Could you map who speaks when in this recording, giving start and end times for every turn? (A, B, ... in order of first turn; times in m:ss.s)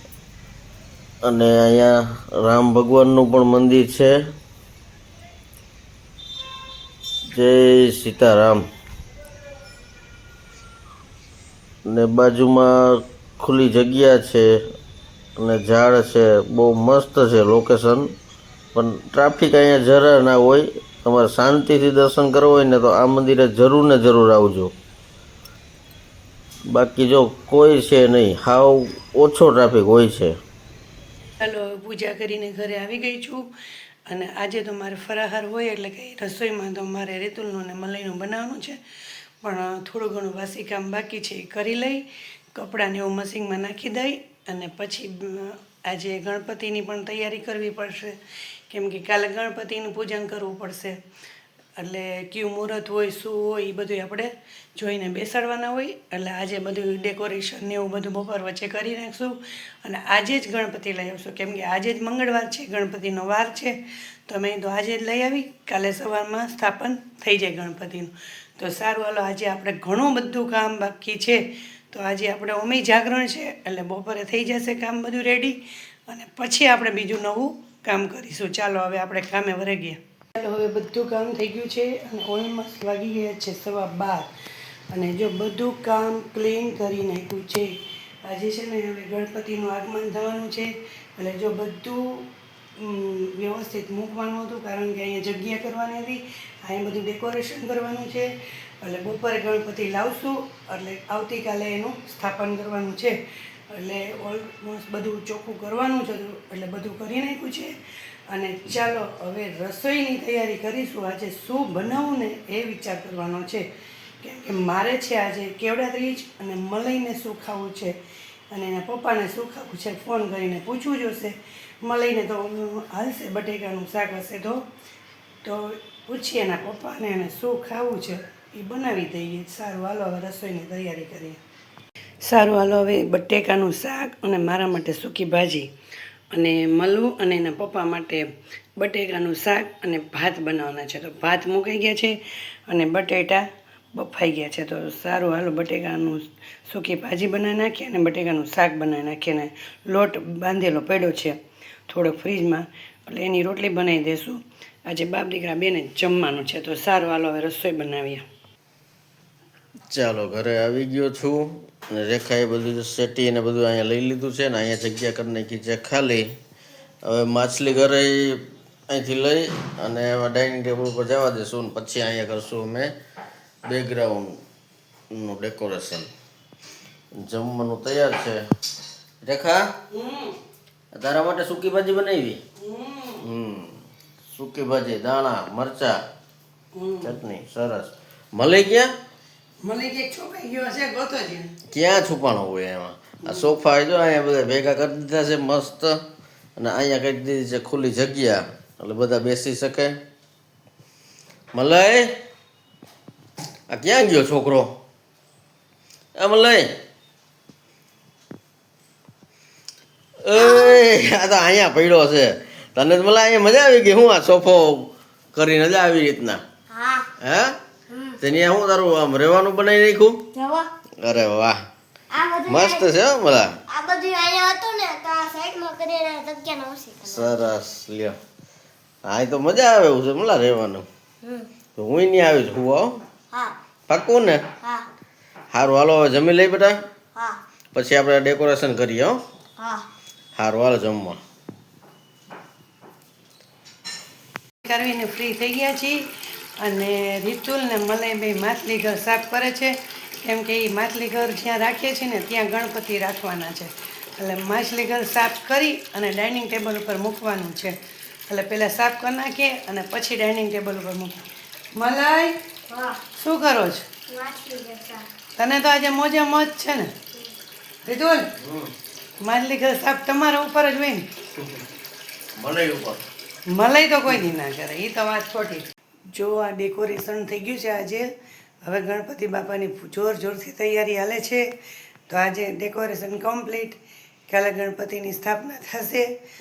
0:01.2-0:04.2 A
0:07.3-0:08.6 A
0:11.9-0:14.5 A
0:15.4-0:18.1 A
0:18.7-0:24.7 A
0:26.7-0:30.3 A
0:31.4-0:33.5 B
0:34.1-0:38.8 B
0:39.4-0:48.2 B
0:48.7-0:51.0 B
0:51.8-1:24.3 B
1:24.9-1:43.2 B
1:43.7-1:53.7 B
1:54.2-1:58.0 B
1:58.5-2:04.6 B
2:05.4-2:11.4 B
2:12.2-2:15.7 B
2:16.3-2:38.2 B
2:39.9-2:46.3 A
2:47.0-2:52.9 A
2:53.7-2:54.4 A
2:55.1-2:56.1 A
2:57.1-2:58.4 A
2:59.2-2:59.7 A
2:59.9-3:00.4 B
3:00.9-3:02.4 A
3:02.6-3:03.2 B
3:03.2-3:03.8 A
3:04.3-3:06.0 A
3:06.7-3:07.1 B
3:07.0-3:08.9 A
3:09.6-3:11.5 B
3:11.7-3:16.0 A
3:16.6-3:20.0 A
3:21.5-3:22.1 A
3:23.7-3:24.7 A
3:26.2-3:26.8 A
3:30.2-3:36.4 A
3:30.3-3:30.8 C
3:36.7-3:37.1 C
3:37.2-3:37.6 A
3:37.9-3:38.2 C
3:38.2-3:40.2 A
3:40.3-3:40.7 C
3:41.0-3:41.6 A
3:42.1-3:42.9 C
3:42.5-3:43.6 A
3:43.7-3:47.4 C
3:47.0-3:48.2 A
3:49.0-3:50.8 A
3:51.2-3:51.5 C
3:51.8-3:53.0 A
3:53.9-3:54.4 A
3:55.5-3:56.8 A
3:57.7-3:59.2 A
3:59.6-3:59.9 C
4:00.3-4:01.2 A
4:04.6-4:17.7 B
4:18.3-4:22.3 B
4:22.7-4:23.0 C
4:23.1-4:23.8 B
4:24.1-4:25.1 C
4:25.4-4:26.9 B
4:27.8-4:28.3 B
4:28.4-4:28.7 A
4:29.2-4:31.1 B
4:31.4-4:31.6 A
4:32.4-4:33.0 A
4:33.5-4:38.1 B
4:38.6-4:41.5 B
4:42.1-4:46.1 B